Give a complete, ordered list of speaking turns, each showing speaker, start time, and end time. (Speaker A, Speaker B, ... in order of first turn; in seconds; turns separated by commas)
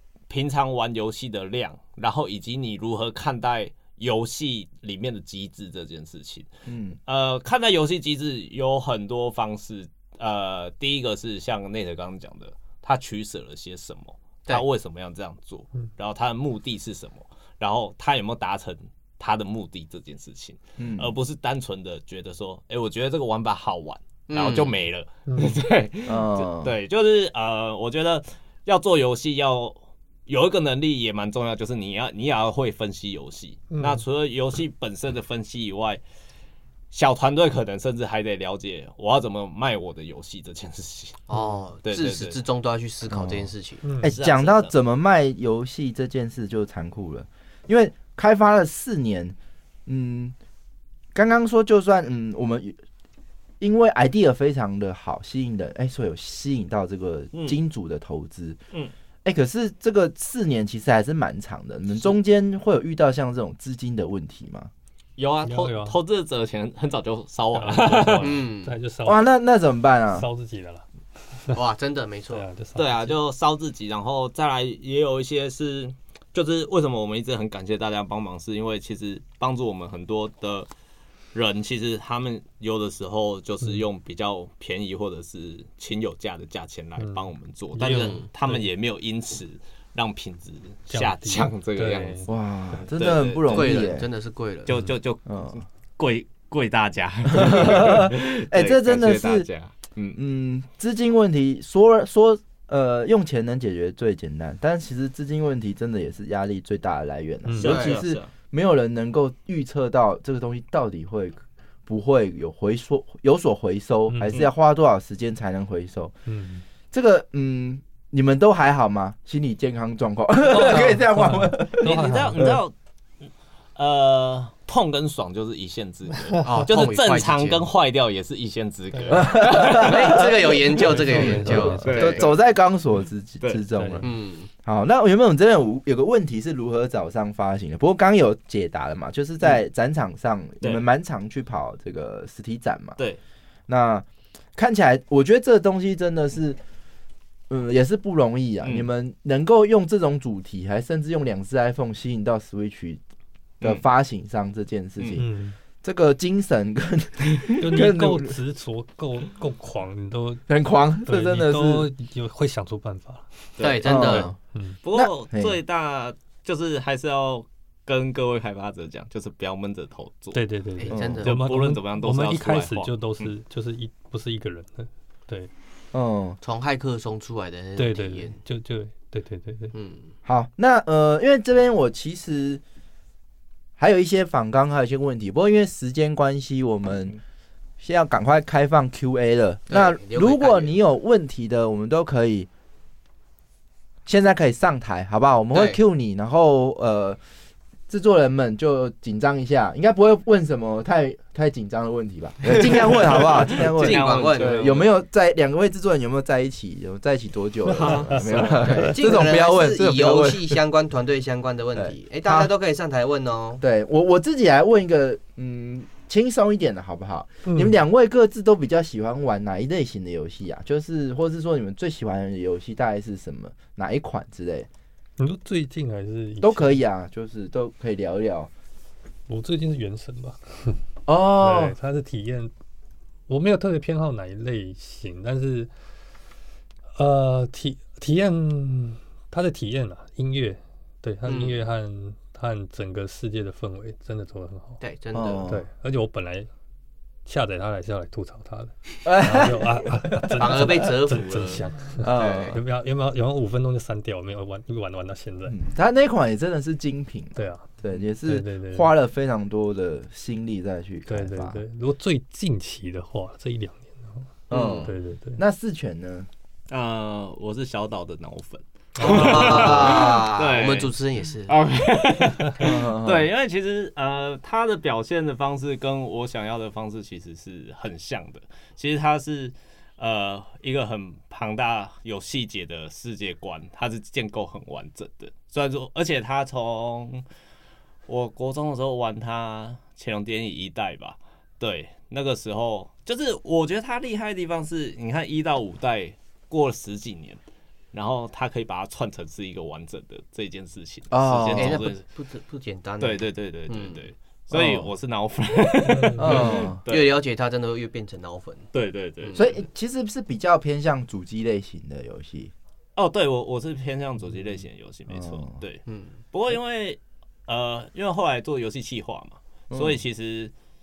Speaker A: 0.3-6.5, Speaker B: 6.7-7.0, Speaker A: 7.0-36.0, Speaker B: 20.8-21.1, Speaker C: 24.3-24.7, Speaker D: 25.3-25.5, Speaker B: 26.1-26.7, Speaker D: 33.7-34.0, Speaker A: 36.9-41.3, Speaker C: 41.3-43.8, Speaker D: 41.3-41.6, Speaker A: 41.8-42.4, Speaker B: 43.1-43.5, Speaker D: 43.8-44.1, Speaker B: 44.0-49.3, Speaker A: 44.0-44.7, Speaker B: 49.9-50.3, Speaker B: 51.1-52.8, Speaker B: 53.6-58.6, Speaker A: 57.3-57.6, Speaker B: 59.2-64.7, Speaker A: 65.2-68.4, Speaker D: 65.5-66.0, Speaker D: 67.5-69.2, Speaker C: 68.2-68.7, Speaker B: 69.0-70.3, Speaker D: 70.1-70.9, Speaker C: 71.5-72.5, Speaker D: 72.3-73.2, Speaker A: 72.8-80.7, Speaker A: 81.3-92.3, Speaker D: 87.0-88.7, Speaker C: 87.8-88.3, Speaker D: 90.9-92.3, Speaker B: 92.3-94.1, Speaker A: 93.0-93.9, Speaker C: 93.5-94.7, Speaker A: 94.6-100.2, Speaker D: 94.7-95.0, Speaker B: 95.3-95.6, Speaker B: 97.3-99.5, Speaker B: 100.1-116.2, Speaker D: 107.5-107.8, Speaker A: 107.6-108.3, Speaker C: 107.7-108.0, Speaker D: 114.1-114.4, Speaker D: 116.3-116.6, Speaker B: 116.9-122.6, Speaker D: 120.5-122.4, Speaker A: 121.8-122.7, Speaker A: 123.8-132.3, Speaker C: 126.4-127.7, Speaker D: 128.9-129.3, Speaker B: 129.1-130.5, Speaker C: 129.6-132.3, Speaker D: 130.8-131.9, Speaker B: 131.1-134.1, Speaker D: 133.7-134.1, Speaker C: 134.0-134.5, Speaker B: 134.6-143.0, Speaker B: 143.7-146.6, Speaker B: 147.5-153.0, Speaker A: 148.6-148.9, Speaker B: 153.6-155.3, Speaker D: 155.2-155.6, Speaker B: 155.8-158.3, Speaker D: 157.6-160.4, Speaker B: 160.5-161.9, Speaker D: 161.1-163.3, Speaker A: 163.6-164.2, Speaker C: 163.6-164.3, Speaker B: 163.8-164.4, Speaker D: 164.5-164.8, Speaker A: 164.8-170.4, Speaker B: 164.9-165.6, Speaker D: 170.3-175.5, Speaker C: 170.8-171.3, Speaker B: 170.9-171.3, Speaker A: 171.2-173.3, Speaker B: 175.9-176.4, Speaker C: 176.4-178.4, Speaker D: 177.8-179.7, Speaker C: 179.7-180.1, Speaker B: 180.2-182.6, Speaker B: 183.8-187.2, Speaker B: 187.8-192.5, Speaker C: 189.7-190.7, Speaker B: 194.1-197.2, Speaker C: 195.5-195.8, Speaker B: 197.9-210.6, Speaker C: 202.5-204.7, Speaker A: 202.8-204.9, Speaker A: 207.7-208.9, Speaker D: 207.7-208.9, Speaker C: 208.6-213.6, Speaker B: 211.7-212.5, Speaker B: 213.6-224.7, Speaker D: 217.4-217.7, Speaker D: 225.2-226.8, Speaker B: 226.4-228.5, Speaker D: 229.3-230.8, Speaker B: 231.1-231.8, Speaker D: 231.4-232.5, Speaker D: 233.3-235.7, Speaker D: 236.9-244.8, Speaker C: 241.2-241.6, Speaker C: 244.8-245.4, Speaker B: 245.1-245.7, Speaker D: 245.5-246.5, Speaker D: 247.3-255.6, Speaker B: 249.0-250.4, Speaker C: 250.4-252.6, Speaker B: 252.0-252.6, Speaker B: 255.5-261.6, Speaker D: 257.4-257.7, Speaker D: 258.2-258.9, Speaker D: 261.1-264.3, Speaker C: 264.5-264.9, Speaker B: 264.5-266.3, Speaker D: 264.8-265.4, Speaker A: 266.7-270.9, Speaker C: 269.0-271.6, Speaker B: 269.3-269.9, Speaker A: 271.4-287.2, Speaker B: 272.6-273.3, Speaker A: 288.1-297.4, Speaker A: 297.9-302.1, Speaker B: 301.1-301.8, Speaker C: 301.6-304.1, Speaker A: 303.0-307.1, Speaker B: 304.5-304.9, Speaker D: 305.8-306.5, Speaker B: 306.2-306.8, Speaker C: 306.4-308.7, Speaker A: 308.7-309.5, Speaker C: 309.2-309.5, Speaker B: 309.4-312.5, Speaker A: 313.0-320.5, Speaker B: 315.1-315.6, Speaker C: 315.9-316.2, Speaker B: 319.7-320.0